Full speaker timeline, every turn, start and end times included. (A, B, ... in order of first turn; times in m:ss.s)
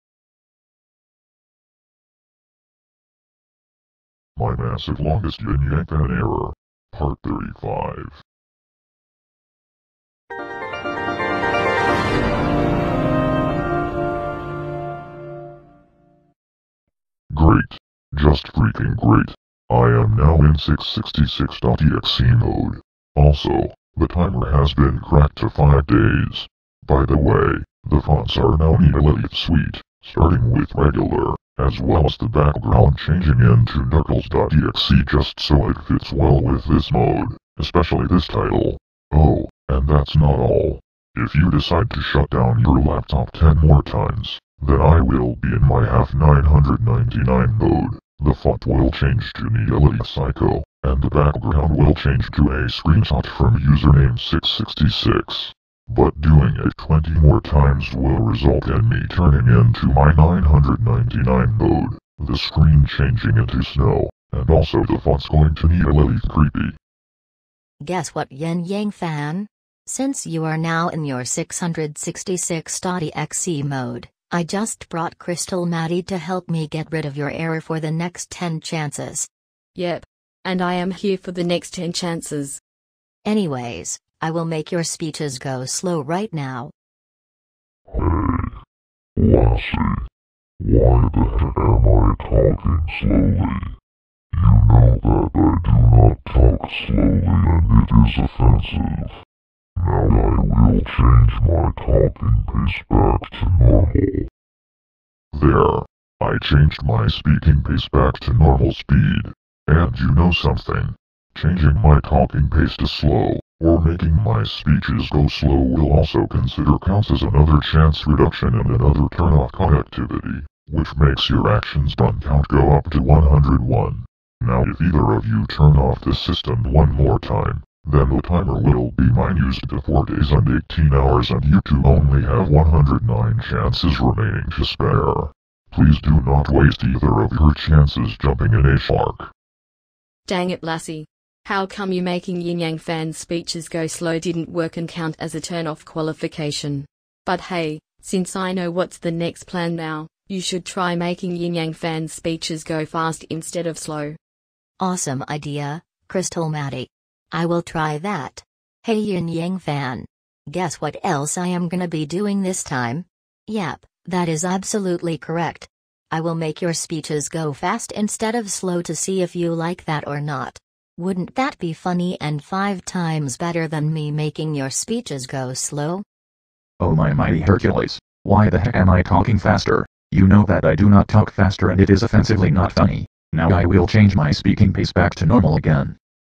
0:04.4-0:08.2 A
0:17.3-1:06.8 A
1:07.8-1:19.3 B
1:19.7-1:22.6 C
1:23.2-1:26.7 B
1:27.9-1:28.5 A
1:29.2-1:30.0 A
1:30.6-1:33.7 A
1:34.3-1:39.1 A
1:39.8-1:44.3 A
1:45.3-2:19.3 A
2:20.2-2:34.2 C
2:34.8-2:56.0 B
2:56.8-3:06.0 D